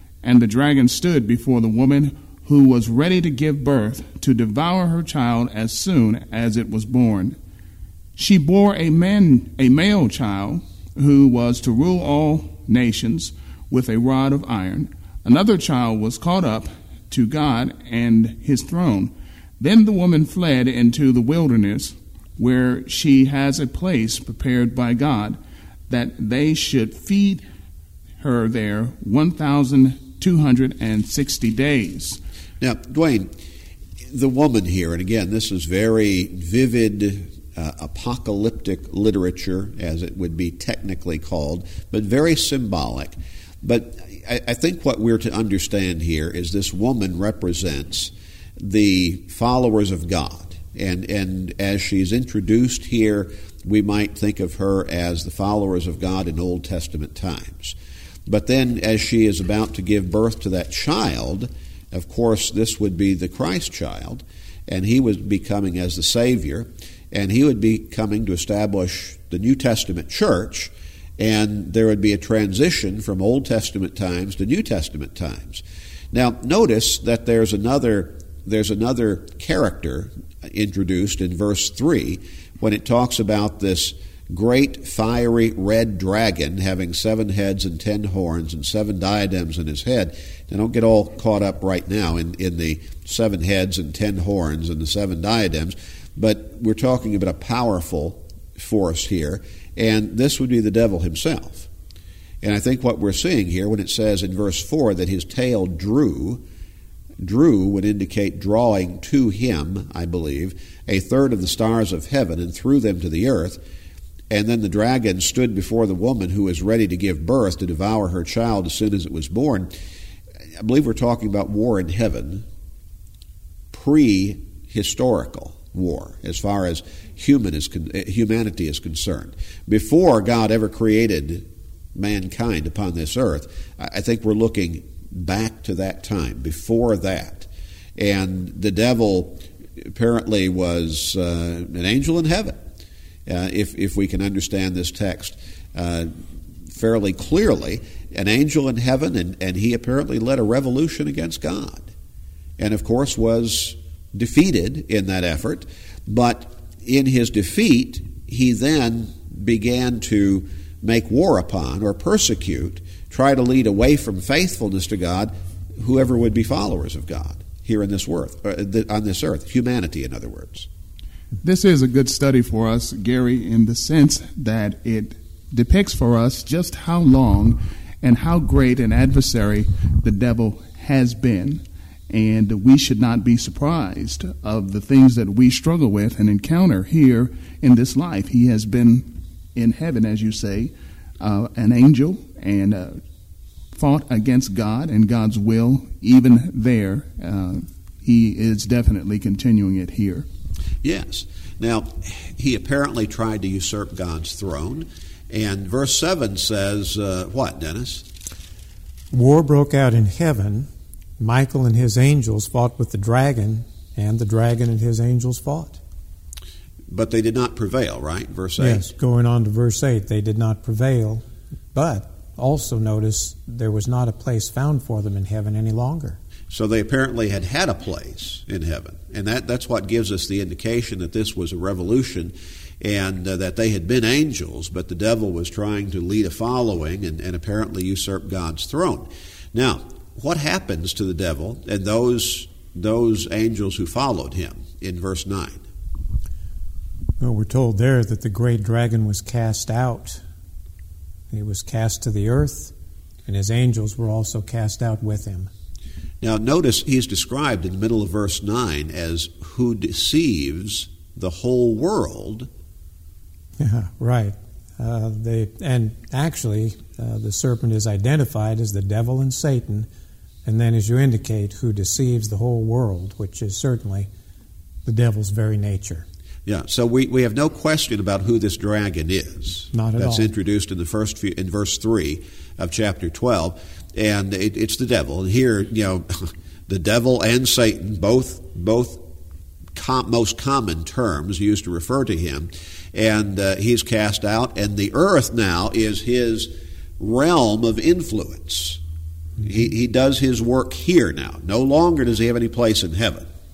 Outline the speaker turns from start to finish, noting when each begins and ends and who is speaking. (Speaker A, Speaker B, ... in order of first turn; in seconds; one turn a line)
Speaker A: 0.2-7.4
Speaker A: 8.2-25.4
Speaker A: 25.9-27.4
Speaker A: 28.2-32.2
Speaker B: 32.6-33.3
Speaker B: 34.1-57.8
Speaker B: 58.3-101.7
Speaker B: 102.4-106.4
Speaker B: 107.2-113.6
Speaker B: 114.3-119.7
Speaker B: 120.6-122.5
Speaker B: 123.7-142.6
Speaker B: 143.3-146.1
Speaker B: 146.7-151.9
Speaker B: 152.6-170.7
Speaker A: 171.4-193.0
Speaker A: 193.7-200.3
Speaker B: 200.8-208.1
Speaker C: 209.1-215.8
Speaker B: 216.9-218.9
Speaker C: 218.6-226.2
Speaker B: 226.5-245.6
Speaker C: 247.2-250.2
Speaker C: 251.3-252.7
Speaker C: 253.3-255.5
Speaker B: 256.2-262.5
Speaker C: 263.6-269.9
Speaker C: 270.4-274.1
Speaker C: 274.9-276.1
Speaker B: 276.5-289.0
Speaker C: 279.7-280.3
Speaker B: 289.8-298.8
Speaker B: 299.4-303.3